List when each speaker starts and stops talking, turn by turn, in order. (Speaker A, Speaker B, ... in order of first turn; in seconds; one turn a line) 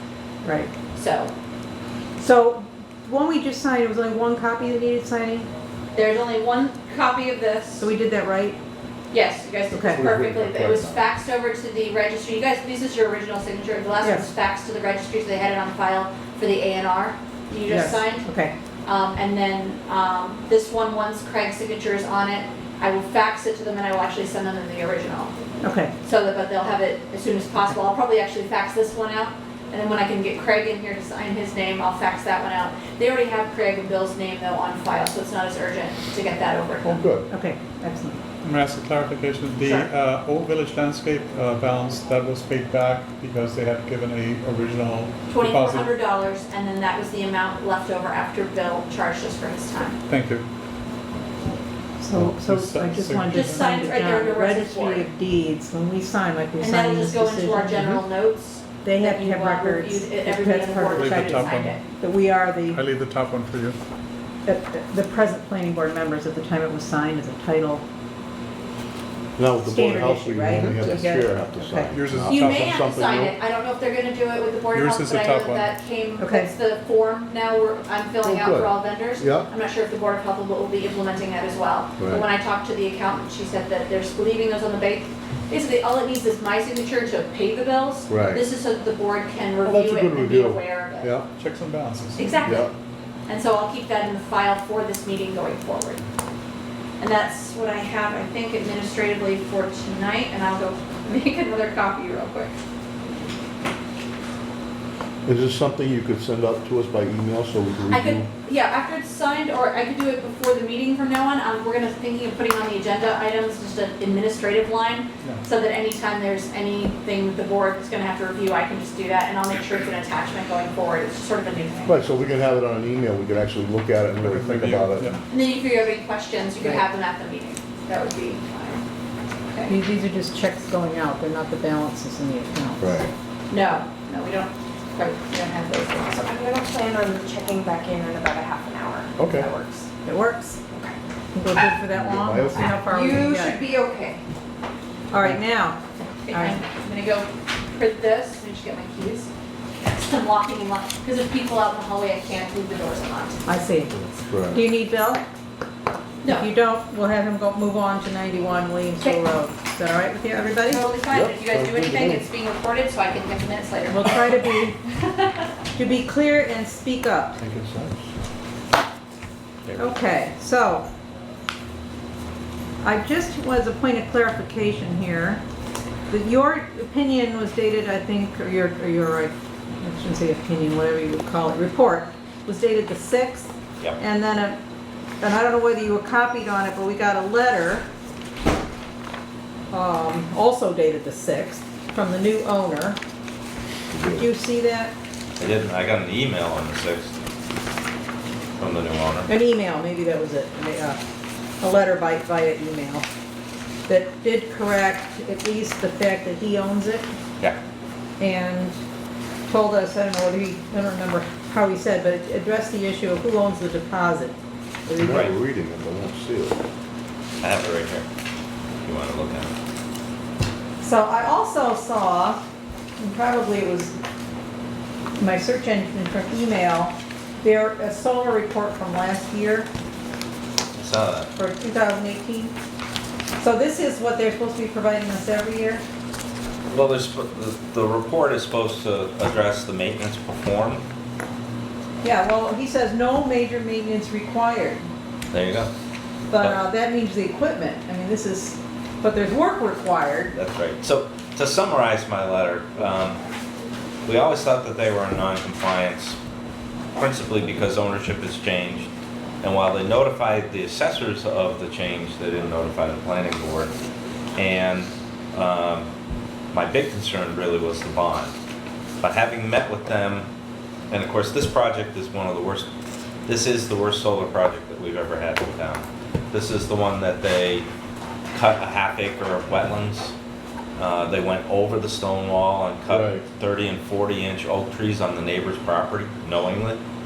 Speaker A: 0.4-0.7
Speaker B: 0.9-1.3
Speaker A: 2.2-5.5
Speaker B: 5.9-7.9
Speaker A: 7.8-8.6
Speaker B: 9.1-18.3
Speaker A: 9.7-10.0
Speaker C: 9.8-11.1
Speaker A: 14.0-14.3
Speaker A: 17.7-18.5
Speaker B: 18.8-25.3
Speaker A: 25.6-25.9
Speaker B: 26.0-37.0
Speaker C: 36.8-37.3
Speaker A: 37.3-38.2
Speaker D: 38.4-45.9
Speaker B: 39.6-39.9
Speaker B: 45.3-50.0
Speaker D: 50.1-50.5
Speaker A: 52.0-58.0
Speaker D: 52.1-53.6
Speaker B: 53.3-55.0
Speaker B: 56.6-61.8
Speaker A: 58.8-62.8
Speaker D: 60.9-61.8
Speaker D: 62.7-63.8
Speaker A: 64.5-67.8
Speaker C: 69.4-73.4
Speaker A: 69.6-72.0
Speaker D: 71.9-72.8
Speaker B: 72.3-91.1
Speaker D: 74.7-75.8
Speaker A: 76.2-76.5
Speaker C: 78.2-79.5
Speaker C: 82.0-82.2
Speaker C: 88.1-88.4
Speaker C: 89.6-91.2
Speaker D: 91.3-92.6
Speaker B: 92.2-92.7
Speaker C: 92.4-92.7
Speaker B: 93.3-96.0
Speaker B: 97.0-102.5
Speaker C: 105.2-108.3
Speaker B: 107.9-122.0
Speaker C: 121.8-125.1
Speaker D: 124.2-125.2
Speaker B: 125.3-128.8
Speaker B: 129.5-129.8
Speaker A: 129.7-133.0
Speaker C: 132.8-133.1
Speaker B: 133.5-136.3
Speaker E: 136.3-139.8
Speaker C: 139.2-139.5
Speaker A: 140.0-140.6
Speaker A: 141.3-143.6
Speaker C: 141.9-142.8
Speaker B: 142.9-144.2
Speaker A: 145.1-145.8
Speaker B: 146.0-153.4
Speaker A: 146.3-146.6
Speaker A: 153.4-153.9
Speaker C: 154.0-154.6
Speaker A: 154.5-155.2
Speaker B: 156.2-156.5
Speaker A: 156.2-160.9
Speaker B: 160.7-165.4
Speaker C: 161.1-162.2
Speaker A: 163.9-164.8
Speaker A: 165.7-167.4
Speaker C: 167.4-168.1
Speaker A: 169.8-170.8
Speaker A: 172.8-175.4
Speaker A: 176.1-184.6
Speaker A: 185.2-187.9
Speaker A: 189.7-193.0
Speaker C: 193.9-194.3
Speaker A: 194.1-194.9
Speaker F: 195.4-197.1
Speaker F: 198.6-199.3
Speaker A: 199.3-201.0
Speaker A: 201.6-203.1
Speaker A: 203.9-207.1
Speaker A: 208.2-208.8
Speaker A: 209.5-215.3
Speaker C: 214.9-216.6
Speaker F: 215.1-215.3
Speaker F: 217.4-218.1
Speaker F: 218.8-219.5
Speaker A: 220.8-222.4
Speaker A: 223.0-223.9
Speaker A: 225.2-229.7
Speaker F: 230.7-231.3
Speaker A: 231.3-232.5
Speaker A: 233.4-235.8
Speaker F: 236.7-240.8
Speaker A: 242.0-244.8
Speaker F: 245.3-245.7
Speaker A: 246.3-250.3
Speaker F: 246.3-246.6
Speaker F: 250.3-253.2
Speaker F: 254.0-256.2
Speaker F: 256.9-258.9
Speaker F: 259.4-263.7
Speaker F: 264.4-265.9
Speaker F: 266.5-268.3
Speaker F: 269.0-270.3
Speaker F: 270.9-272.7
Speaker F: 273.3-277.7
Speaker F: 278.3-280.1
Speaker F: 280.8-286.8
Speaker C: 282.9-283.2